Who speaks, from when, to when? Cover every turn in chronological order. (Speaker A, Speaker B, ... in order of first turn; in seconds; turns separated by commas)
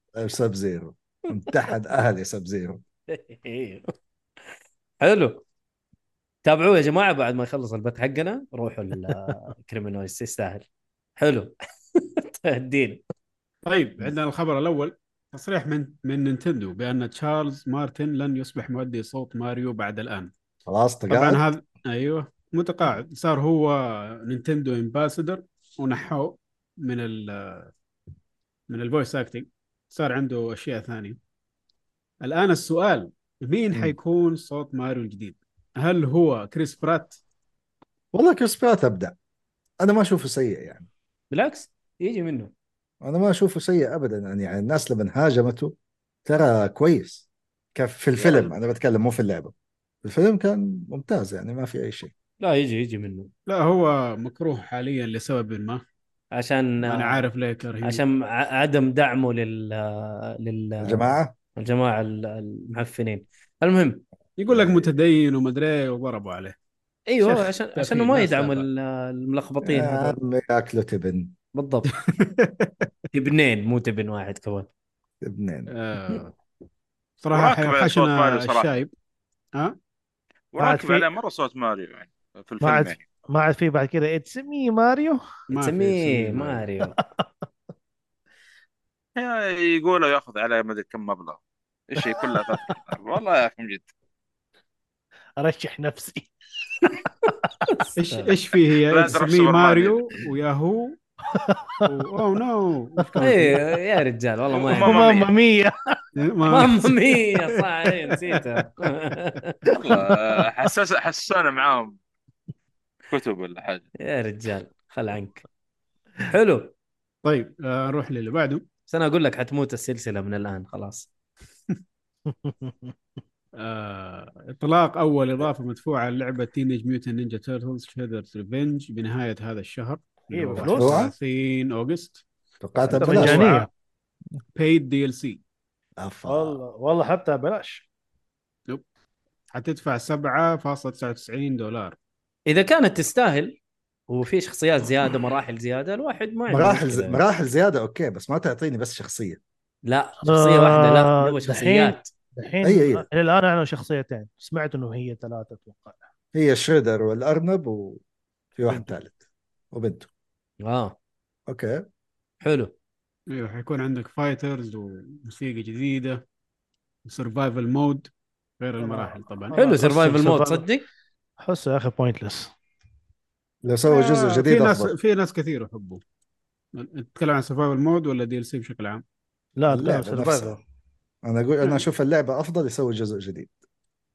Speaker A: 0.1-2.8, Speaker B: 3.1-3.9, Speaker B: 5.0-5.4, Speaker B: 6.4-10.7, Speaker B: 11.2-13.0, Speaker C: 13.7-20.3, Speaker A: 20.6-21.5, Speaker C: 21.1-27.7, Speaker C: 28.7-31.2, Speaker C: 32.2-37.2, Speaker A: 38.1-39.1, Speaker A: 39.8-40.9, Speaker B: 41.3-42.5, Speaker A: 43.0-45.7, Speaker A: 46.2-49.5, Speaker B: 48.2-48.5, Speaker A: 50.0-52.1, Speaker B: 52.4-53.3, Speaker C: 53.5-55.8, Speaker B: 56.3-57.2, Speaker C: 56.8-58.0, Speaker B: 57.8-64.0, Speaker A: 60.8-61.3, Speaker C: 64.4-66.5, Speaker A: 64.5-64.8, Speaker B: 67.1-70.2, Speaker C: 67.2-68.7, Speaker A: 69.6-71.3, Speaker B: 71.5-71.9, Speaker C: 71.9-72.9, Speaker B: 73.1-74.7, Speaker A: 75.2-75.7, Speaker C: 75.7-76.3, Speaker C: 77.2-78.9, Speaker D: 77.3-78.7, Speaker D: 80.5-83.0, Speaker E: 80.6-81.1, Speaker E: 82.6-85.2, Speaker C: 85.5-86.7, Speaker B: 85.6-87.0, Speaker D: 89.2-93.9, Speaker E: 92.0-92.5, Speaker E: 95.4-96.3, Speaker B: 96.8-98.3, Speaker C: 98.0-101.0, Speaker D: 98.9-100.1, Speaker E: 101.3-101.9, Speaker C: 101.9-103.6, Speaker B: 103.2-105.1, Speaker D: 104.6-105.3, Speaker E: 104.7-105.8, Speaker C: 106.2-108.4, Speaker B: 106.5-109.5, Speaker E: 109.7-110.0, Speaker D: 109.7-112.0, Speaker D: 113.1-113.8, Speaker B: 114.0-115.4, Speaker B: 116.2-116.7, Speaker C: 117.2-118.6, Speaker B: 118.9-121.1, Speaker E: 122.3-122.9, Speaker C: 123.6-132.2, Speaker E: 130.2-131.0, Speaker A: 130.6-131.1, Speaker A: 132.6-133.5, Speaker E: 132.9-133.7, Speaker C: 132.9-133.7, Speaker C: 134.6-135.4, Speaker A: 136.0-136.6, Speaker E: 136.3-137.8, Speaker C: 139.5-142.0, Speaker B: 142.5-143.6, Speaker B: 144.1-147.2, Speaker A: 146.5-149.4, Speaker B: 149.8-152.1, Speaker E: 150.2-156.0, Speaker A: 152.6-153.1, Speaker A: 156.3-158.0, Speaker A: 158.6-159.2, Speaker A: 159.7-160.1, Speaker B: 160.6-161.0, Speaker A: 161.5-161.8, Speaker B: 162.4-162.7, Speaker C: 163.3-166.2, Speaker C: 167.0-169.6, Speaker E: 168.8-170.7, Speaker B: 169.5-170.8, Speaker E: 171.4-172.5, Speaker A: 173.6-174.9, Speaker C: 173.9-176.0, Speaker C: 176.7-179.0, Speaker E: 179.6-180.6, Speaker A: 179.7-180.6, Speaker A: 181.2-183.5